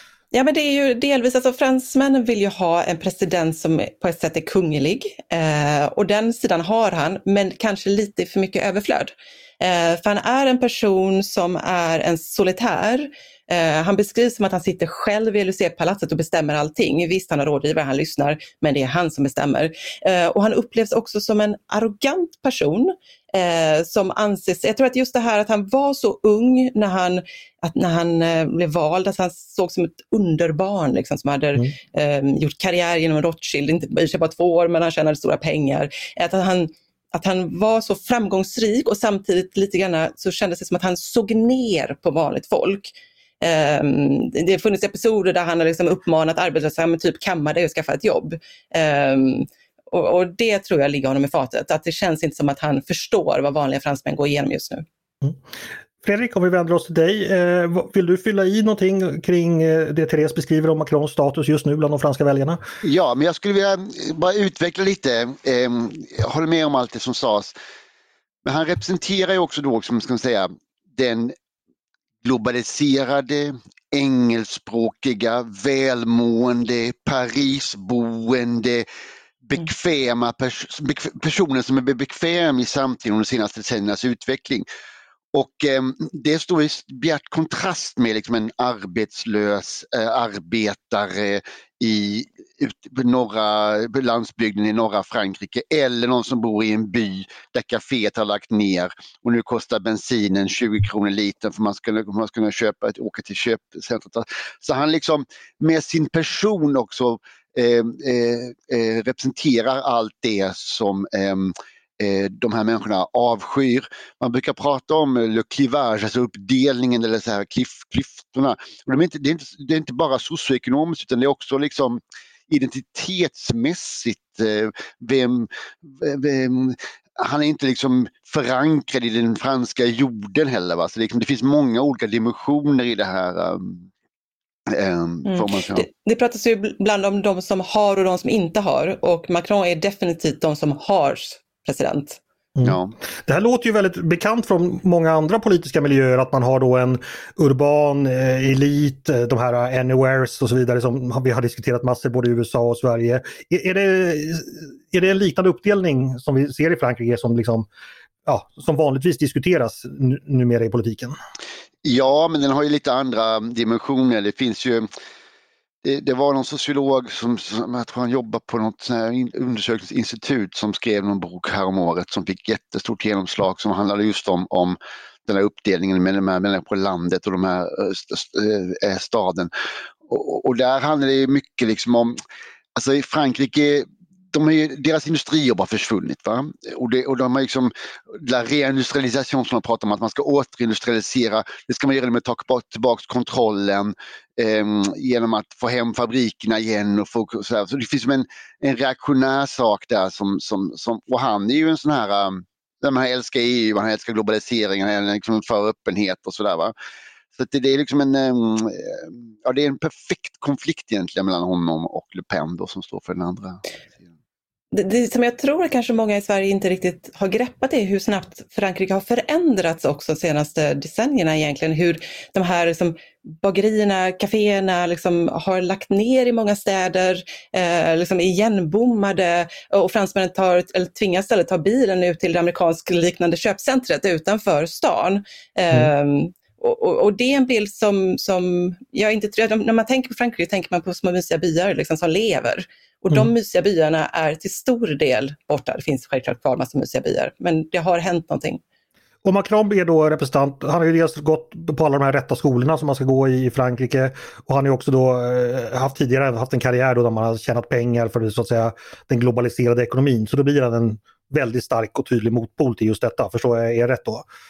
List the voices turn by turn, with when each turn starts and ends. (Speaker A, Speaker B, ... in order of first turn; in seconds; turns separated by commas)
Speaker A: 0.3-54.9, Speaker B: 56.0-62.6, Speaker C: 62.8-67.5, Speaker C: 68.5-71.3, Speaker C: 72.2-78.8, Speaker C: 79.4-84.7, Speaker C: 85.3-133.9, Speaker C: 134.7-135.9, Speaker A: 135.3-142.2, Speaker B: 142.6-157.7, Speaker C: 142.7-142.9, Speaker B: 158.2-161.2, Speaker C: 161.8-164.9, Speaker C: 165.8-179.5, Speaker C: 180.1-182.2, Speaker C: 182.8-206.7, Speaker C: 207.3-213.6, Speaker A: 214.7-248.6, Speaker B: 249.2-264.3